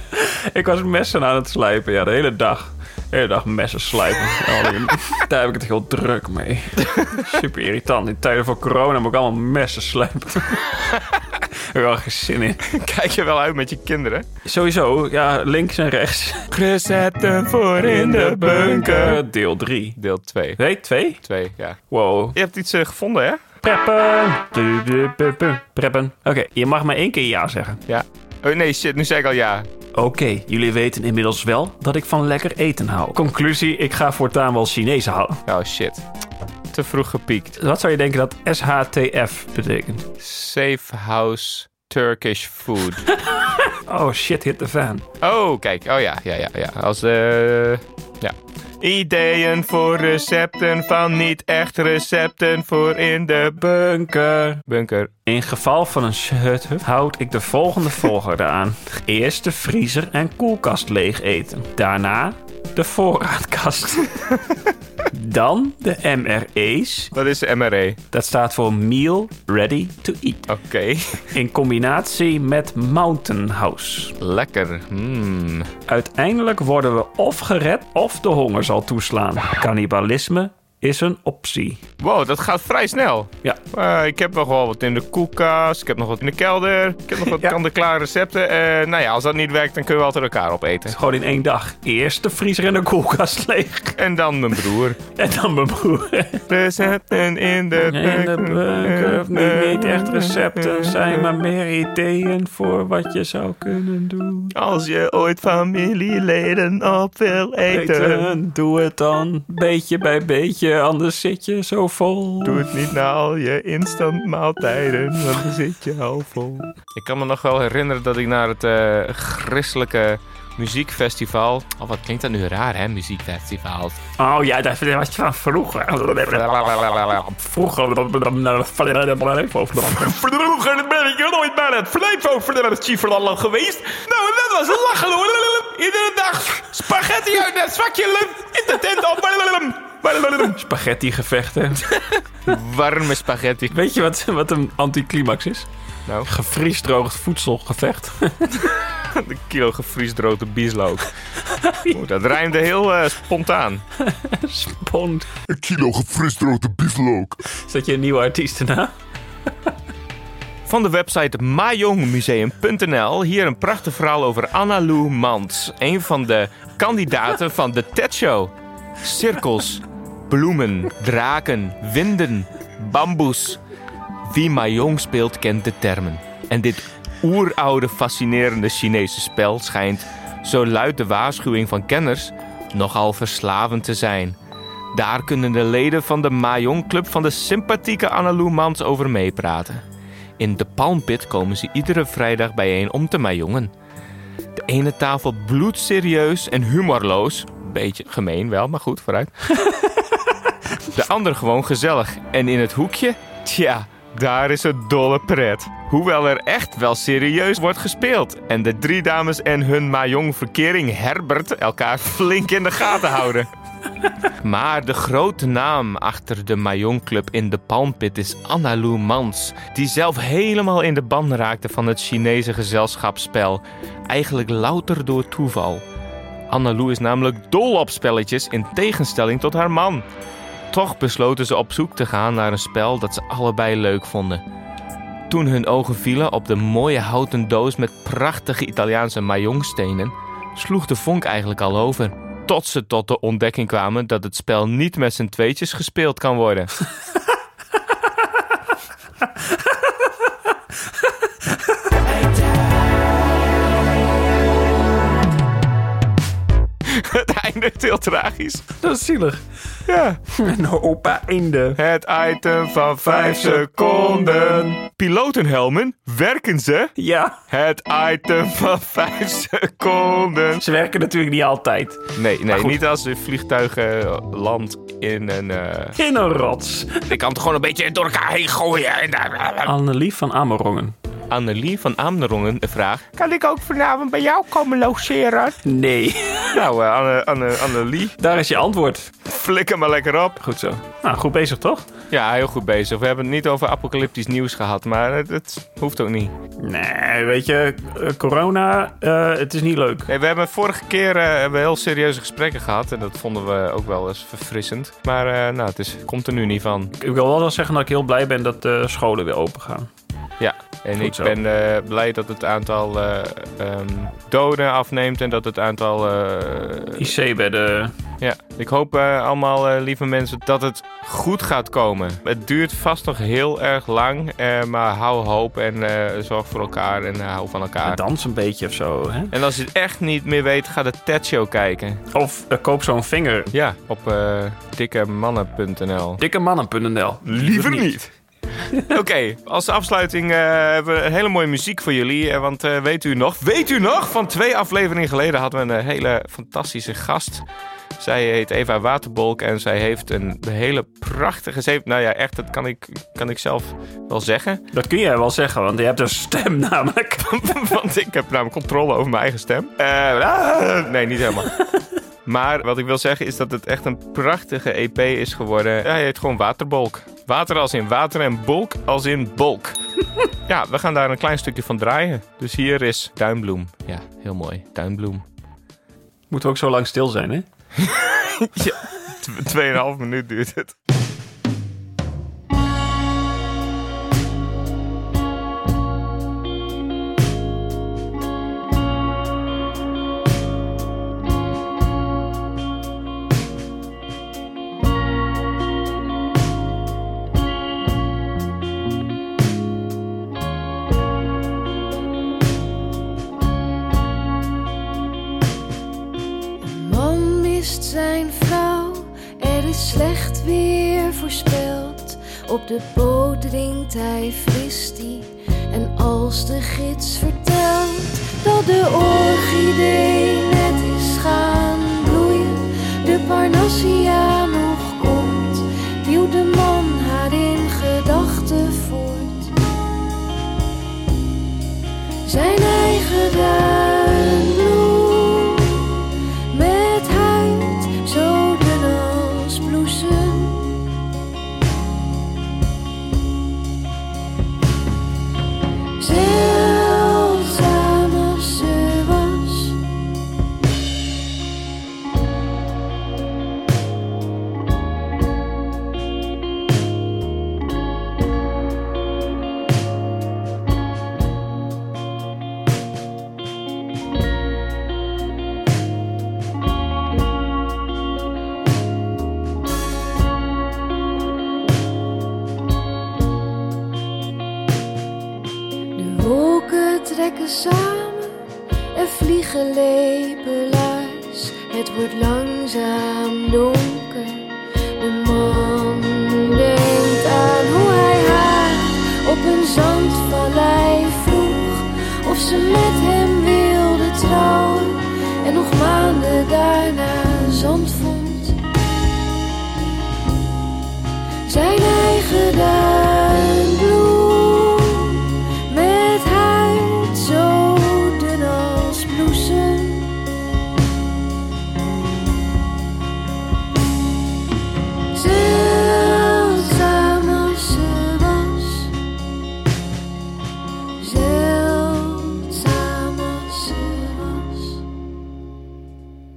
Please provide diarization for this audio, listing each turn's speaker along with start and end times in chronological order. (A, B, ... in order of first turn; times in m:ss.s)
0:00.1-0:10.8 A
0:11.7-0:12.6 A
0:12.6-0:14.3 B
0:14.4-0:16.5 A
0:16.5-0:19.2 B
0:17.8-0:20.0 A
0:20.0-0:20.6 B
0:20.6-0:21.2 A
0:21.2-0:21.8 B
0:21.9-0:22.4 A
0:22.3-0:23.4 B
0:23.6-0:27.8 A
0:27.9-0:29.7 B
0:29.9-0:35.4 A
0:35.5-0:36.0 B
0:36.7-0:37.6 B
0:37.6-0:40.0 A
0:40.2-0:43.0 B
0:43.3-0:45.0 A
0:45.2-0:53.6 B
0:53.6-0:54.6 A
0:54.7-0:55.1 B
0:55.2-1:04.1 A
1:05.1-1:07.1 A
1:07.1-1:08.0 B
1:08.1-1:10.5 A
1:10.5-1:11.3 B
1:11.3-1:14.1 A
1:14.2-1:15.7 B
1:15.9-1:21.8 A
1:22.0-1:31.0 B
1:27.2-1:27.6 A
1:30.9-1:34.0 A
1:34.0-1:35.0 B
1:35.2-1:36.4 A
1:36.5-1:41.2 B
1:37.9-1:44.5 A
1:44.5-1:48.3 B
1:47.7-1:52.6 A
1:52.4-2:04.0 B
2:04.2-2:10.2 A
2:06.5-2:07.2 B
2:10.2-2:20.6 B
2:20.5-2:21.8 A
2:22.4-2:23.7 B
2:23.7-2:25.7 A
2:26.2-2:28.6 A
2:29.1-2:31.1 B
2:31.6-2:32.0 A
2:31.9-2:33.8 B
2:34.0-2:35.3 A
2:35.5-2:37.4 C
2:37.6-2:38.9 A
2:40.7-2:53.6 B
2:54.3-3:04.4 B
3:04.9-3:09.8 B
3:10.4-3:13.7 B
3:14.5-3:19.3 B
3:20.9-3:33.5 B
3:34.4-3:45.8 B
3:46.5-3:50.0 B
3:50.7-3:54.4 B
3:55.3-4:06.7 B
4:16.8-4:18.7 B
4:18.8-4:19.4 A
4:19.9-4:20.2 B
4:20.3-4:21.8 A
4:21.8-4:26.9 B
4:23.0-4:24.8 A
4:27.0-4:27.4 A
4:27.5-4:30.6 B
4:30.6-4:32.8 A
4:32.2-4:36.0 B
4:36.0-4:37.0 A
4:37.0-4:39.7 B
4:39.6-4:40.9 A
4:41.3-4:43.1 B
4:43.1-4:45.5 D
4:45.6-4:46.6 A
4:46.5-4:48.1 B
4:48.2-4:49.1 A
4:49.2-4:50.4 B
4:50.4-4:51.8 A
4:52.1-4:56.3 B
4:56.6-5:00.1 A
5:00.1-5:06.9 B
5:07.0-5:09.9 A
5:10.4-5:17.1 B
5:11.0-5:11.4 A
5:17.0-5:17.9 A
5:18.2-5:28.0 B
5:27.8-5:29.3 A
5:29.3-5:32.0 B
5:32.1-5:33.5 A
5:33.5-5:36.2 B
5:36.2-5:37.9 A
5:37.2-5:38.1 B
5:38.8-5:47.4 B
5:48.0-5:54.6 B
5:54.7-5:57.4 A
5:57.2-6:01.5 B
6:02.2-6:09.8 B
6:10.5-6:15.2 B
6:16.3-6:17.4 A
6:17.8-6:20.7 B
6:46.6-7:09.5 E
7:12.2-7:20.8 E
7:26.0-7:29.8 E
7:55.9-7:58.4 E
7:58.9-8:18.6 E
8:21.4-8:30.2 E
8:35.1-8:38.9 E
8:41.0-8:44.8 E